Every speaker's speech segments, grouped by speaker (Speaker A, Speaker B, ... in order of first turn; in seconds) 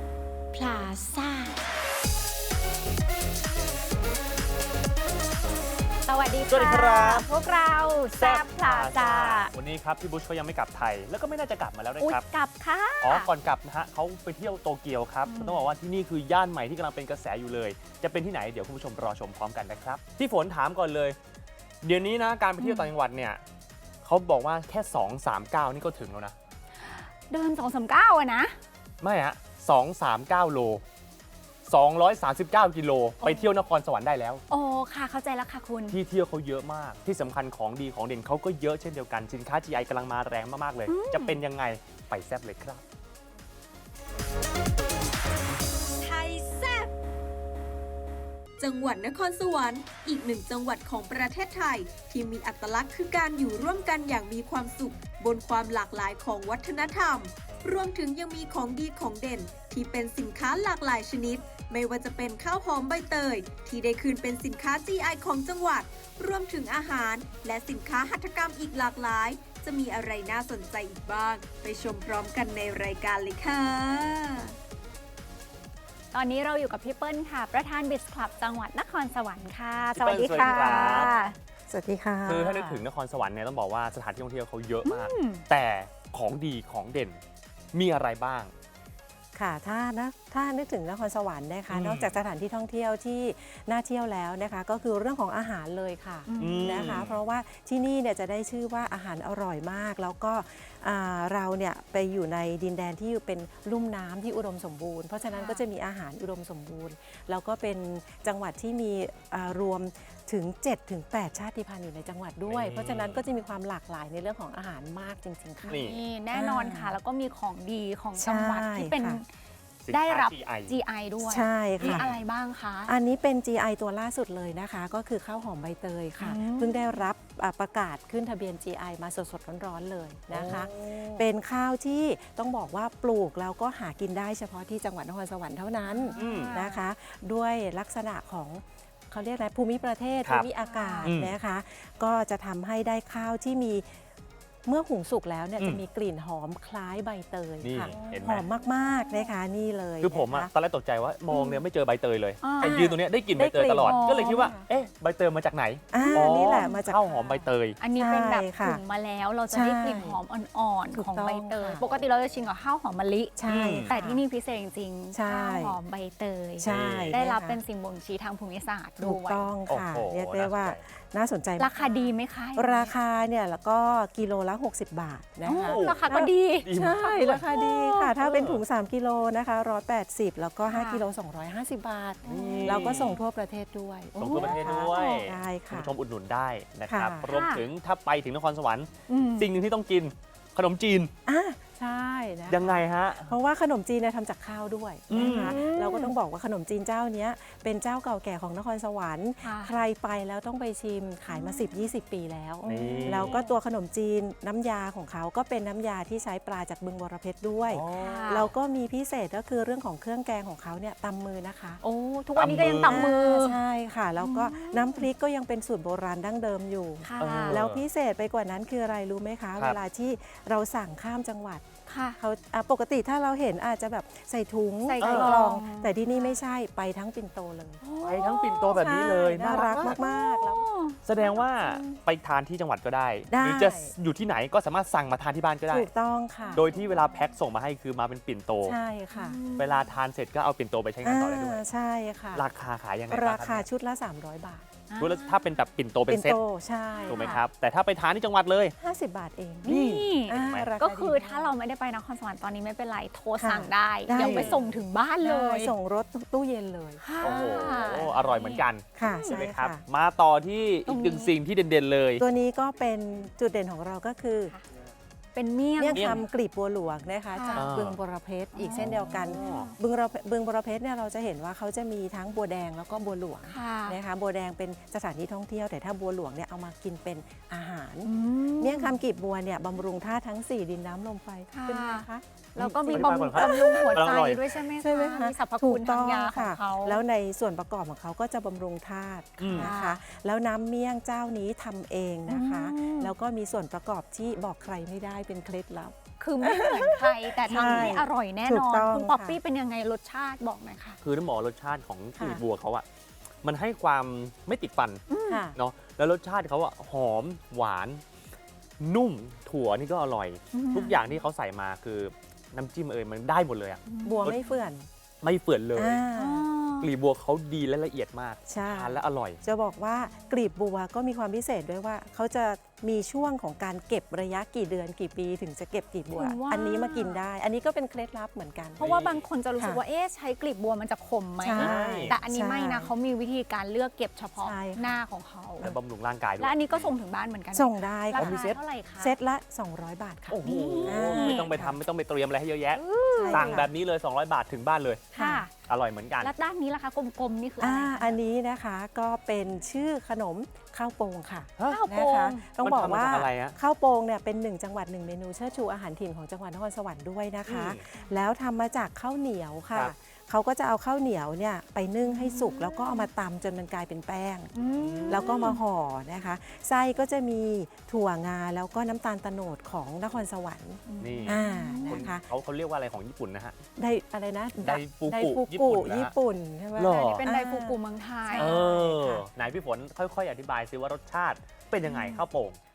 Speaker A: 0.5-1.6, 6.0-9.5, 12.0-13.3, 15.2-15.7, 22.6-22.9, 26.8-28.5, 33.2-33.5, 34.5-36.0, 40.9-41.4, 76.1-81.3, 84.8-85.4, 96.3-97.0, 105.3-105.6, 115.6-119.2, 119.9-122.9, 126.2-127.0, 130.4-131.2, 135.9-136.8, 140.6-141.1, 147.8-148.2, 148.8-149.3, 151.3-151.6, 152.4-153.0, 153.8-154.5, 156.0-156.8, 157.8-169.5, 171.6-172.9, 175.4-178.1, 180.7-181.0, 182.3-183.2, 184.3-185.3, 187.2-187.7, 189.1-189.5, 195.2-196.1, 199.4-199.7, 201.3-201.7, 202.9-203.5, 208.0-208.5, 211.8-213.6, 214.2-215.1, 217.0-217.6, 221.9-222.2, 224.8-226.3, 227.8-231.8, 236.4-237.1, 239.1-239.9, 244.9-245.4, 246.9-247.4, 249.6-255.7, 257.0-259.4, 260.9-261.3, 265.3-266.2, 267.3-267.7, 268.6-269.8, 273.5-274.0, 278.1-279.0, 281.5-287.0, 289.5-290.0, 292.3-293.1, 296.2-301.0, 305.1-305.5, 310.5-311.0, 313.9-314.6, 316.2-316.9, 326.1-327.2, 328.8-335.7, 336.4-339.1, 340.4-341.5, 342.8-343.6, 345.1-345.5, 346.2-348.2, 351.7-352.5, 362.1-363.1, 364.5-365.6, 370.9-372.1, 377.1-378.6, 381.9-382.2
Speaker B: 6.5-7.3, 8.2-12.2, 13.0-21.2, 21.8-23.4, 24.0-26.4, 29.0-30.8, 31.6-34.4, 35.9-42.8, 79.9-81.1, 82.2-87.2, 87.7-88.5, 91.7-92.1, 96.4-97.2, 112.5-113.2, 115.7-116.0, 119.8-120.8, 121.8-122.2, 130.3-130.7, 136.2-136.6, 141.0-141.4, 147.6-148.4, 150.0-157.8, 163.5-163.9, 166.7-167.2, 169.7-170.8, 175.6-176.0, 176.6-177.0, 178.2-178.6, 182.2-183.2, 184.2-191.1, 192.5-193.3, 195.1-195.6, 202.7-203.4, 207.7-208.4, 212.3-213.1, 217.2-217.8, 225.0-225.4, 228.0-230.0, 231.0-235.9, 236.5-238.8, 239.6-241.6, 242.3-243.7, 245.0-246.4, 247.1-248.7, 249.7-250.7, 254.1-254.6, 257.2-262.2, 265.9-266.2, 267.5-268.0, 268.8-269.7, 282.6-284.4, 289.4-289.7, 297.5-297.9, 301.0-302.9, 303.4-305.0, 305.6-308.0, 308.8-314.4, 315.2-316.1, 316.8-319.4, 328.8-329.3, 331.6-332.2, 335.6-336.9, 338.1-338.6, 340.3-345.1, 345.6-346.3, 351.6-351.9, 352.6-353.6, 357.4-357.9, 364.8-365.5, 371.0-373.6, 374.6-376.1, 376.8-377.2, 378.4-382.6
Speaker C: 46.1-46.5, 48.6-74.5
Speaker D: 80.5-81.2, 81.7-82.8, 89.3-116.9, 118.2-119.2, 121.2-122.1, 122.9-144.0, 144.7-150.5, 152.6-154.7, 155.9-158.8, 159.5-160.2, 160.9-161.8, 163.4-164.2, 165.1-165.8, 166.6-167.6, 169.0-185.9, 186.9-187.3, 191.2-211.8, 212.4-221.6, 222.2-227.8, 228.7-230.7, 233.3-233.9, 235.7-236.7, 238.6-239.4, 241.0-242.4, 243.1-244.7, 246.1-247.3, 248.8-251.5, 253.4-254.7, 255.2-258.1, 259.0-259.8, 262.2-264.5, 265.8-284.1, 284.7-299.4, 302.2-302.4, 305.3-305.6, 314.1-314.9, 315.8-316.5, 318.5-328.8, 329.6-329.8, 331.4-332.9, 334.4-335.0, 337.5-341.8, 343.2-343.7, 345.1-345.4, 347.6-364.5, 365.1-372.3, 373.8-379.2